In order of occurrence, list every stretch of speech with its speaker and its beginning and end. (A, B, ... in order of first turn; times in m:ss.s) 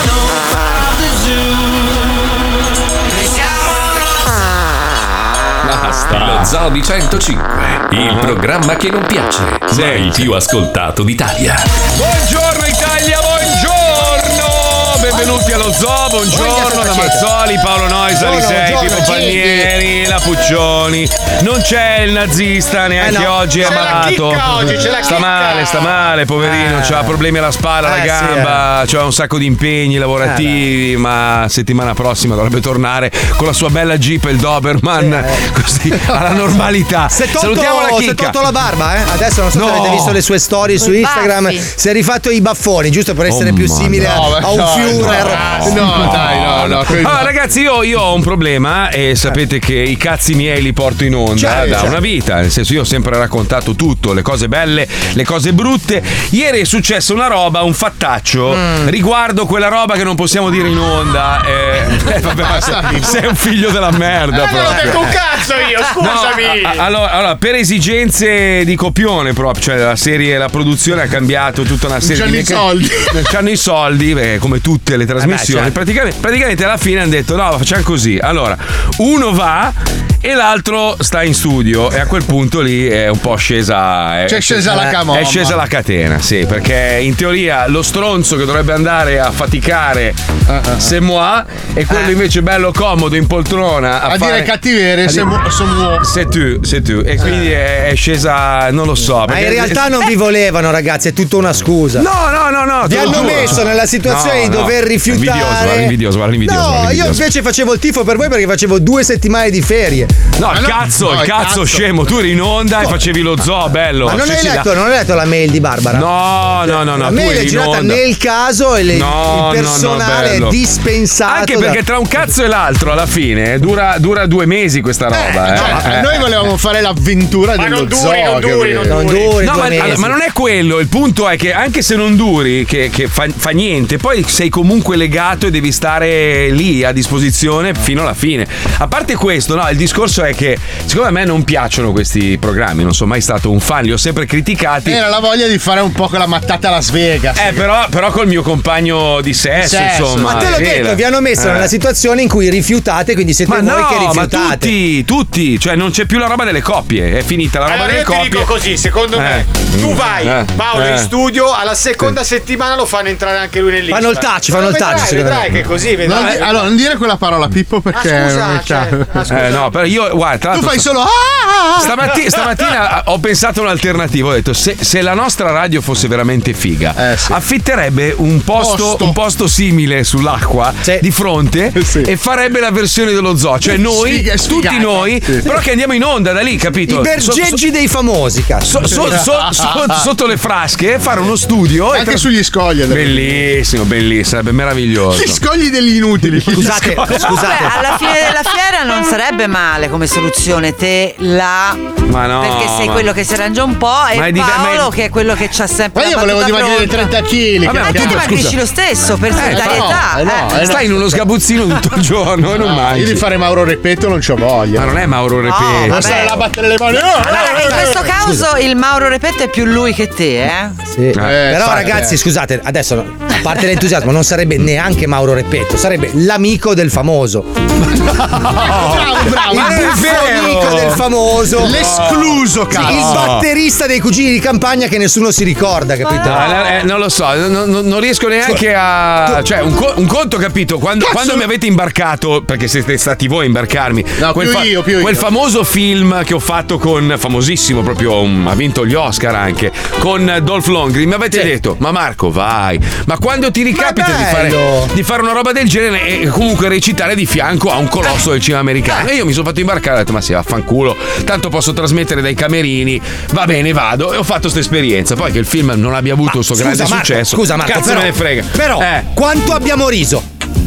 0:05.6-0:06.5 A
0:06.1-0:11.6 B
0:08.0-0:08.4 A
0:09.7-0:10.2 A
0:12.0-0:38.4 A
0:16.3-0:17.2 C
0:18.1-0:19.7 C
0:23.0-0:24.0 C
0:23.6-0:26.0 D
0:26.4-0:27.2 C
0:27.8-0:28.6 C
0:30.2-0:30.6 C
0:35.0-0:35.4 C
0:37.1-0:45.8 C
0:39.5-0:40.2 A
0:40.8-0:41.6 E
0:43.2-1:05.1 A
0:44.0-0:47.3 F
0:51.3-0:52.0 C
0:51.6-0:51.9 F
0:58.5-0:58.9 C
1:02.3-1:03.2 F
1:04.3-1:06.8 D
1:06.0-1:30.2 A
1:12.0-1:13.2 F
1:15.2-1:15.8 C
1:24.3-1:25.6 F
1:24.7-1:25.0 C
1:30.5-1:30.9 F
1:30.8-1:34.5 A
1:31.9-1:32.1 C
1:34.0-1:36.1 F
1:35.0-1:35.3 A
1:36.0-1:40.1 A
1:39.2-1:42.1 C
1:42.0-1:47.2 A
1:42.8-1:50.2 C
1:43.0-1:43.4 F
1:50.4-1:54.7 A
1:50.5-1:51.8 F
1:52.8-1:53.1 C
1:54.0-1:56.1 C
1:55.9-1:58.0 A
1:56.7-2:01.8 C
1:58.9-2:00.6 A
2:01.2-2:06.3 A
2:05.1-2:05.8 C
2:05.5-2:09.0 F
2:07.6-2:09.5 D
2:08.8-2:10.2 C
2:09.4-2:25.0 A
2:24.8-2:27.6 F
2:27.4-2:31.7 A
2:29.6-2:30.6 F
2:30.2-2:34.7 C
2:33.5-2:38.6 A
2:37.6-2:46.7 D
2:39.1-2:41.1 A
2:43.9-2:45.7 C
2:46.0-2:49.4 F
2:48.0-2:49.6 D
2:49.3-2:50.9 A
2:50.5-2:52.1 F
2:51.8-3:07.6 A
2:57.0-2:57.4 F
2:58.6-2:59.2 F
3:01.8-3:02.1 F
3:03.7-3:05.5 F
3:06.8-3:09.0 C
3:08.6-3:12.3 A
3:11.9-3:13.5 F
3:12.9-3:15.4 A
3:15.1-3:17.4 F
3:16.5-3:18.2 A
3:16.6-3:17.8 C
3:17.3-3:30.8 E
3:22.1-3:23.1 A
3:24.1-3:24.9 A
3:25.9-3:28.5 F
3:27.6-3:28.6 A
3:29.3-3:33.3 A
3:29.5-3:30.9 F
3:32.5-3:35.0 F
3:34.7-3:36.4 A
3:35.4-3:36.4 E
3:35.9-3:38.1 F
3:37.1-3:40.8 E
3:37.5-3:38.4 C
3:40.9-3:47.5 C
3:41.1-3:41.8 A
3:41.2-3:42.2 F
3:47.9-3:53.4 A
3:48.4-3:50.7 F
3:49.4-3:51.9 C
3:51.6-3:53.4 F
3:52.7-3:56.7 C
3:56.2-4:29.1 A
4:01.0-4:01.4 F
4:04.2-4:05.3 F
4:13.7-4:14.9 C
4:26.3-4:30.2 C